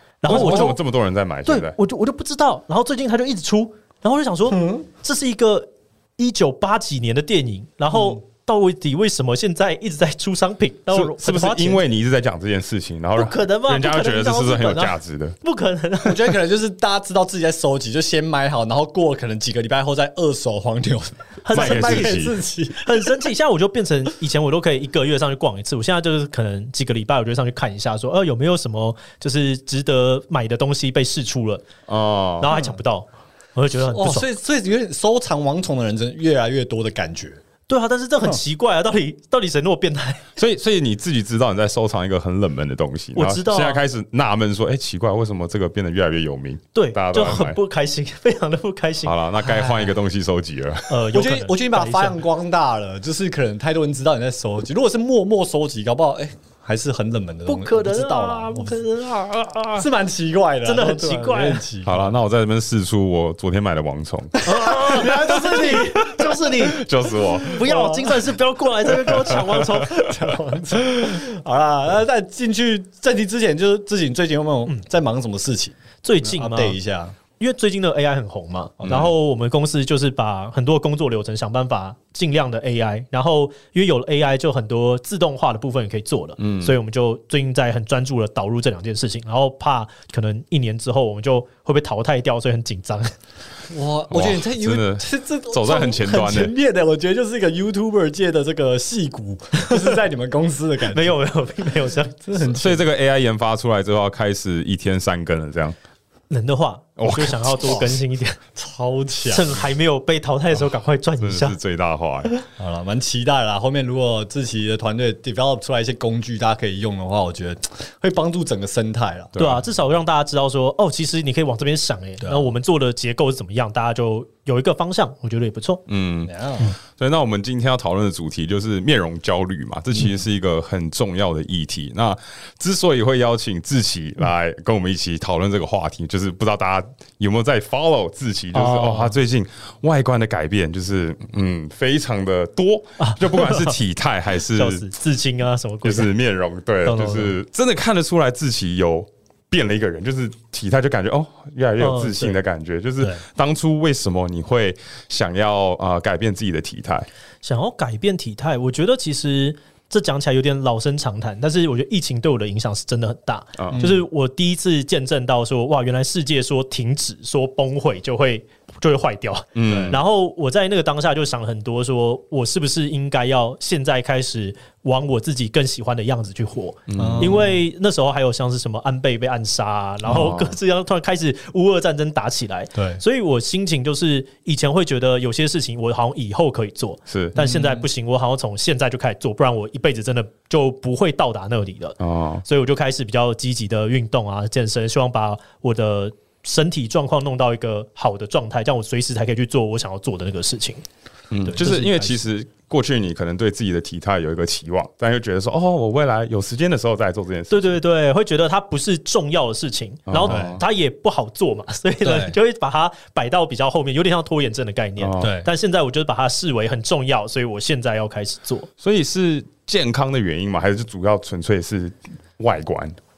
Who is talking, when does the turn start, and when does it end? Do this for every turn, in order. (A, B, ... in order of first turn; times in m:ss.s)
0:00.2-0:00.8 A
0:00.2-0:00.8 B
0:00.3-0:01.7 C
0:01.4-0:11.8 A
0:04.5-0:04.8 B
0:07.9-0:08.2 B
0:10.9-0:15.3 C
0:13.2-0:16.4 A
0:16.0-0:23.1 B
0:21.4-0:31.6 A
0:21.5-0:22.4 C
0:31.9-0:32.5 C
0:32.4-0:34.3 A
0:32.5-0:32.8 B
0:33.9-0:37.4 B
0:37.7-0:40.2 A
0:40.4-0:47.6 C
0:43.1-0:43.8 A
0:46.7-0:49.1 A
0:49.0-0:51.0 C
0:49.4-0:49.9 B
0:50.9-0:52.2 A
0:51.1-0:58.8 B
0:57.5-0:59.9 A
0:59.8-1:02.1 B
1:00.6-1:01.6 A
1:01.8-1:04.4 C
1:04.3-1:06.3 B
1:04.4-1:06.8 A
1:05.7-1:07.7 C
1:07.5-1:08.4 B
1:07.5-1:10.1 A
1:08.9-1:17.2 B
1:09.1-1:09.5 C
1:16.0-1:16.8 A
1:17.4-1:33.1 A
1:18.8-1:19.1 B
1:18.8-1:19.1 C
1:26.4-1:26.8 C
1:33.7-1:41.2 B
1:34.1-1:36.5 C
1:39.6-1:39.9 A
1:40.9-1:42.2 A
1:42.2-1:42.8 B
1:42.4-1:45.7 C
1:46.3-1:48.4 A
1:47.0-1:47.8 C
1:48.5-1:49.6 B
1:49.2-1:51.6 A
1:51.2-1:52.3 C
1:52.6-1:59.3 B
1:59.3-1:59.6 C
1:59.4-2:05.8 A
2:02.2-2:02.5 B
2:05.9-2:24.9 C
2:06.2-2:06.7 B
2:18.5-2:19.2 A
2:23.0-2:23.8 A
2:24.5-2:26.1 A
2:25.8-2:37.1 C
2:26.9-2:27.3 B
2:26.9-2:27.3 A
2:31.8-2:32.4 A
2:37.4-3:20.8 A
2:43.6-2:43.8 C
2:43.7-2:44.0 B
2:49.5-2:50.0 C
2:49.7-2:50.0 B
2:56.9-2:57.4 C
2:57.0-2:57.6 B
3:00.0-3:00.3 B
3:00.1-3:00.6 C
3:02.7-3:03.0 B
3:07.1-3:07.3 C
3:07.3-3:07.9 B
3:12.0-3:12.4 C
3:21.3-3:27.8 C
3:21.4-3:22.2 A
3:27.5-3:38.7 A
3:30.1-3:30.6 C
3:30.2-3:30.6 B
3:32.0-3:32.4 B
3:35.0-3:35.3 C
3:35.2-3:35.5 B
3:38.8-3:43.0 C